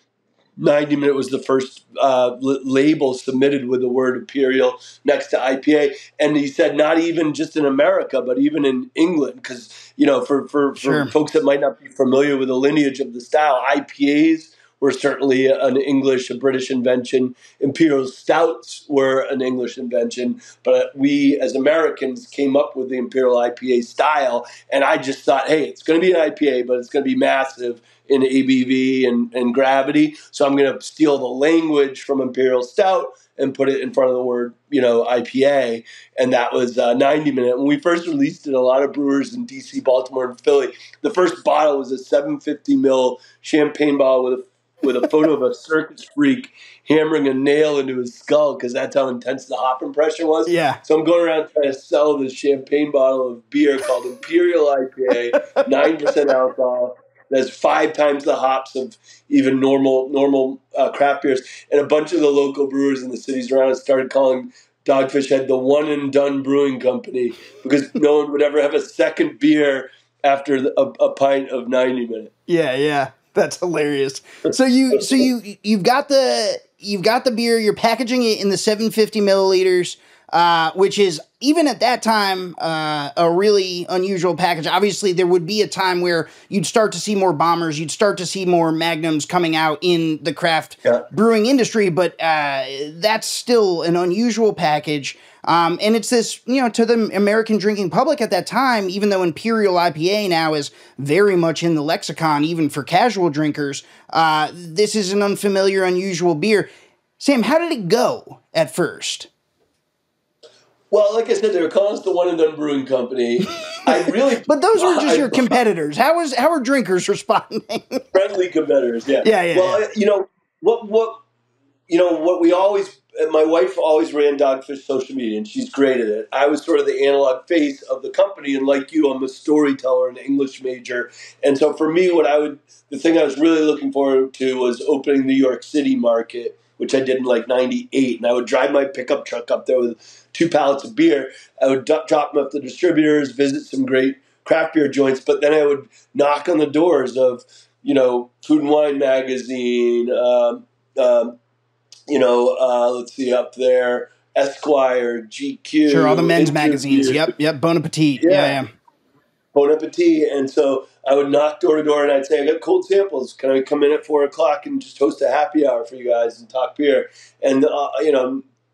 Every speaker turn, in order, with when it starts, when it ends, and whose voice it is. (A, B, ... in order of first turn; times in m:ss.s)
0:00.6-1:12.3 A
0:10.8-0:11.1 B
0:50.5-0:50.8 B
1:12.5-1:49.3 B
1:50.9-1:55.6 A
1:53.9-1:58.0 B
1:58.1-2:01.2 A
1:59.2-1:59.8 B
2:01.9-2:31.4 A
2:32.1-2:37.3 A
2:35.9-2:38.7 B
2:38.2-2:38.6 A
2:39.5-2:48.5 A